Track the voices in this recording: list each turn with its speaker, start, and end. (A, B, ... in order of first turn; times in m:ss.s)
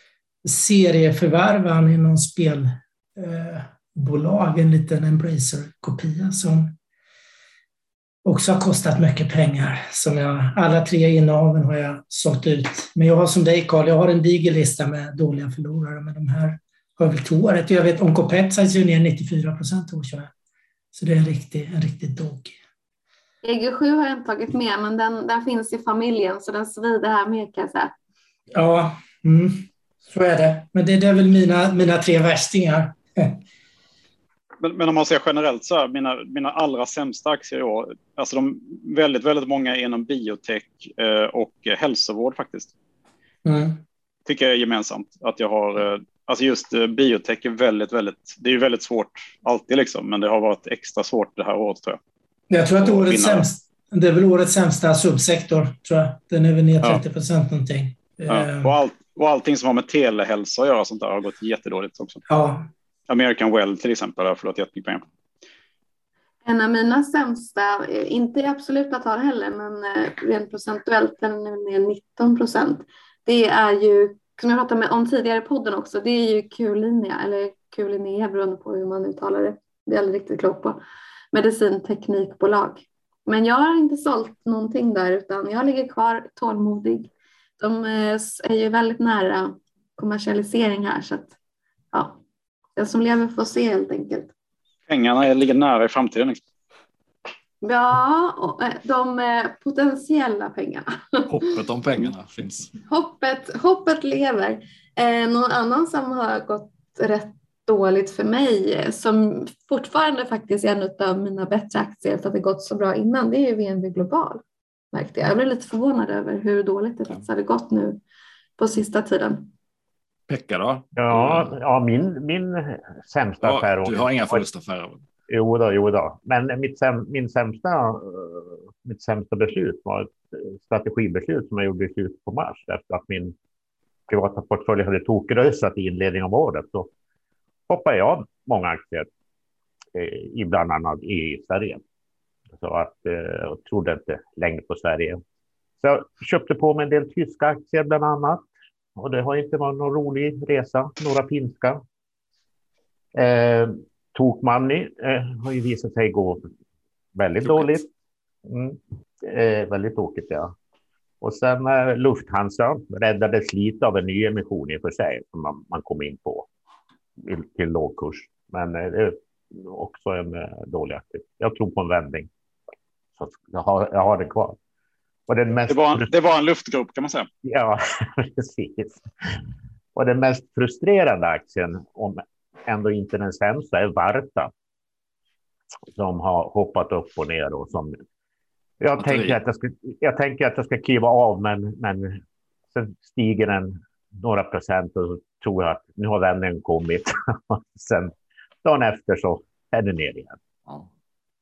0:00.4-0:06.7 A
0:08.2-0:20.3 A
0:20.9-0:22.6 A
0:23.4-0:27.9 B
0:28.5-0:33.4 A
0:34.6-0:42.7 C
0:43.4-0:43.8 A
0:44.2-0:52.0 C
0:52.5-0:58.7 A
0:52.8-0:53.5 C
0:58.3-1:02.2 C
1:02.3-1:02.7 A
1:03.1-1:05.0 C
1:06.4-1:20.8 B
1:21.3-1:31.3 B
1:31.9-1:32.2 B
1:32.8-1:34.3 B
1:34.9-1:36.4 C
1:37.6-1:41.4 B
1:41.3-1:42.7 D
1:42.8-1:58.0 B
1:58.6-1:59.5 B
2:00.3-2:01.5 D
2:01.0-2:04.4 E
2:03.4-2:05.0 D
2:05.3-2:13.3 E
2:14.1-2:16.9 E
2:17.7-2:19.1 E
2:19.9-2:21.8 E
2:22.6-2:25.2 E
2:25.8-2:31.8 E
2:33.1-2:36.5 E
2:37.1-2:37.9 E
2:37.4-2:37.8 D
2:38.4-2:40.5 E
2:41.2-2:46.5 E
2:47.2-2:52.3 E
2:53.2-2:54.6 E
2:55.3-2:56.1 E
2:55.7-2:57.3 C
2:57.4-2:59.0 E
2:59.9-3:04.5 E
3:05.9-3:08.0 E
3:08.8-3:12.2 E
3:09.0-3:09.4 D
3:12.7-3:20.4 E